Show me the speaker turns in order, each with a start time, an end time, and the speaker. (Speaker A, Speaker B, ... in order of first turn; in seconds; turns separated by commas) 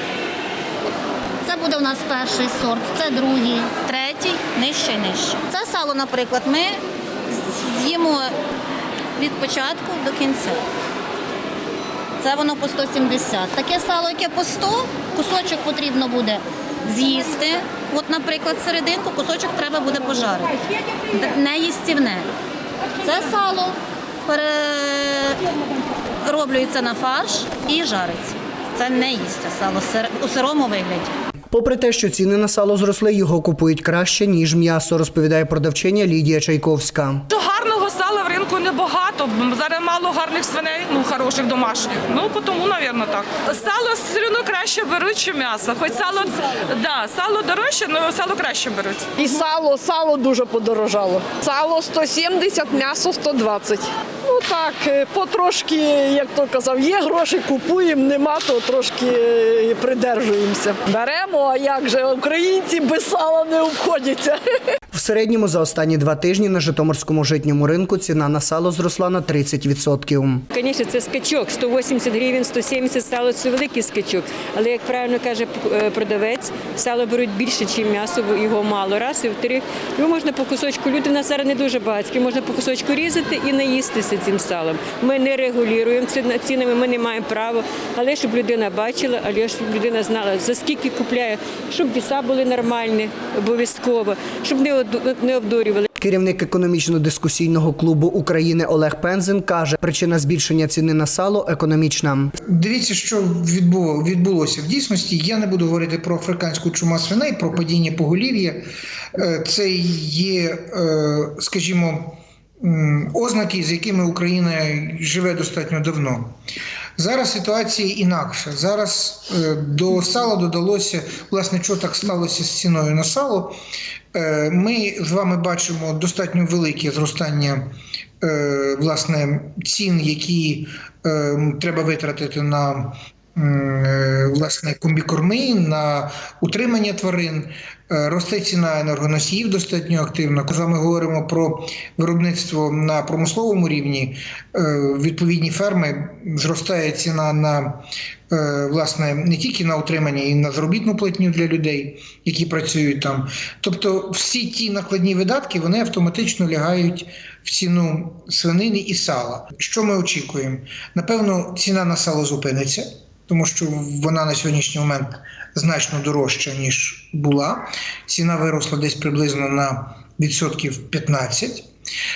Speaker A: 1.4-8.3, Speaker A: 9.2-10.6, Speaker A: 12.2-20.6, Speaker A: 21.1-22.3, Speaker A: 23.0-25.4, Speaker A: 26.2-31.1, Speaker B: 31.5-37.2, Speaker C: 37.3-49.1, Speaker D: 49.2-64.4, Speaker B: 64.9-70.4, Speaker E: 70.5-95.9, Speaker B: 96.0-102.3, Speaker F: 102.5-108.7, Speaker F: 109.2-116.3, Speaker F: 117.0-123.5, Speaker F: 124.1-171.7